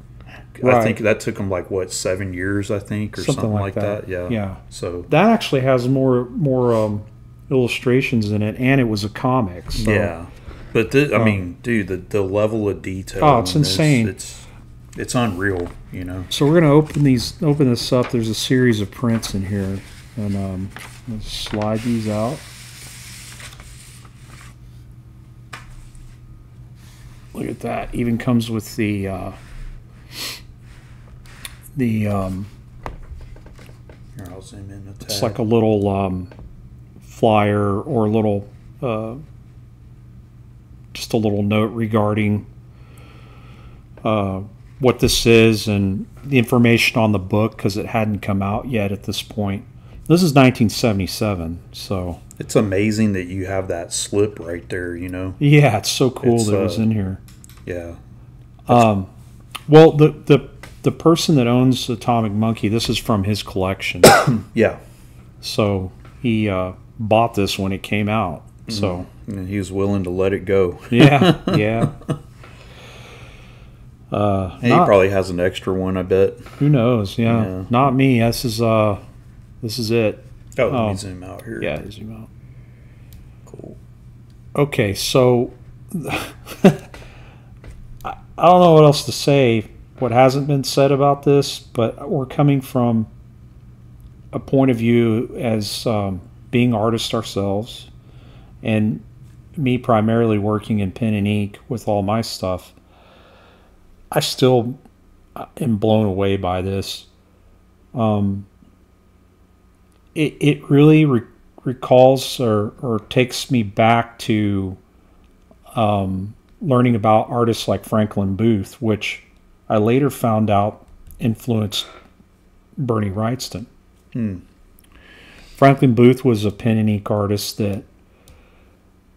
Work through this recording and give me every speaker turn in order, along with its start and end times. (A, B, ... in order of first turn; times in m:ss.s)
0:00.6-0:05.1 A
0:00.6-0:01.0 B
0:03.2-0:10.1 B
0:09.8-0:16.3 A
0:11.2-0:11.4 B
0:13.2-0:14.1 B
0:16.3-0:22.4 B
0:27.3-0:29.4 B
0:31.7-0:32.5 B
0:34.2-0:35.4 A
0:35.0-0:36.3 B
0:37.0-0:39.2 B
0:40.9-0:42.5 B
0:44.0-0:52.2 B
0:52.4-0:55.4 A
0:55.4-0:57.2 B
0:56.2-0:56.9 A
0:57.6-0:58.0 A
0:58.7-0:59.1 B
0:59.7-1:04.2 B
1:04.2-1:04.8 A
1:05.4-1:09.1 B
1:08.7-1:11.9 A
1:10.9-1:12.0 B
1:14.1-1:15.0 B
1:14.6-1:16.5 A
1:16.6-1:19.0 B
1:17.2-1:17.7 A
1:19.6-1:21.0 B
1:20.6-1:21.7 A
1:21.6-1:22.3 B
1:23.5-1:23.8 A
1:24.6-1:26.9 B
1:28.0-1:33.1 B
1:34.3-1:37.9 B
1:38.6-1:39.0 B
1:39.6-1:42.7 B
1:44.1-1:44.8 B
1:45.4-1:47.1 B
1:47.9-1:48.5 B
1:50.1-1:54.8 B
1:55.7-2:01.9 B
2:02.8-2:03.7 B
2:04.1-2:04.4 A
2:05.6-2:07.8 B